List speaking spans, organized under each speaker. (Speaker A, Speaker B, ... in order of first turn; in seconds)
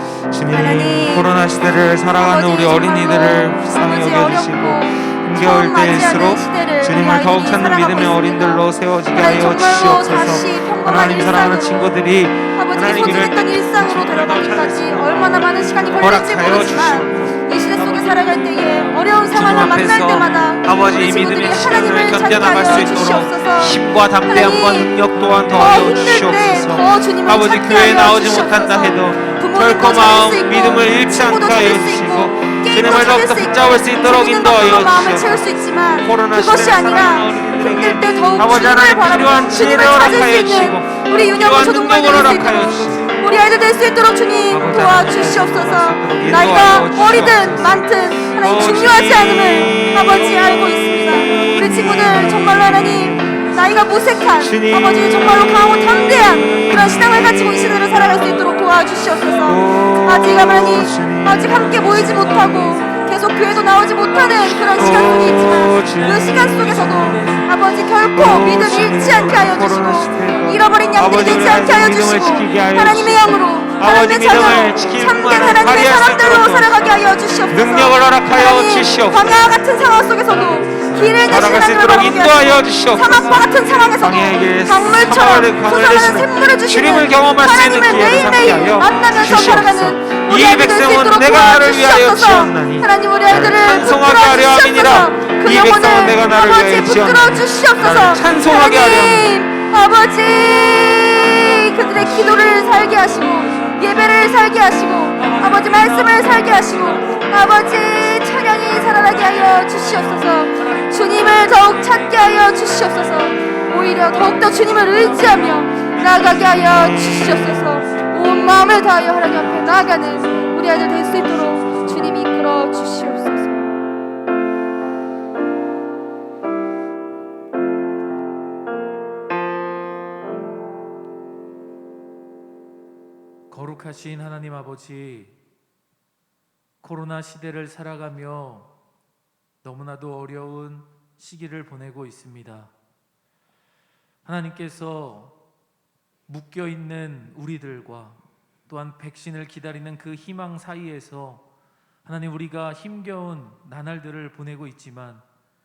Speaker A: 0.3-18.0, 19.3-43.2, 44.5-53.5, 54.3-57.7, 59.4-62.5, 64.8-67.2, 68.1-76.9, 77.5-79.6, 80.7-99.4, 116.8-117.4
Speaker B: 0.5-1.4, 2.1-11.9, 12.5-24.9, 25.5-123.7
Speaker C: 17.9-18.9, 25.2-25.8, 57.7-59.3, 61.5-67.5, 69.0-69.3, 70.3-72.6, 73.4-74.9, 76.9-77.6, 80.3-81.1, 83.1-84.0, 85.1-85.5, 88.9-89.1, 101.3-102.9, 105.2-110.1, 114.0-117.9, 119.8-122.2, 133.5-135.3, 136.8-138.7, 139.6-142.7, 144.2-145.4, 146.3-151.4, 152.0-155.2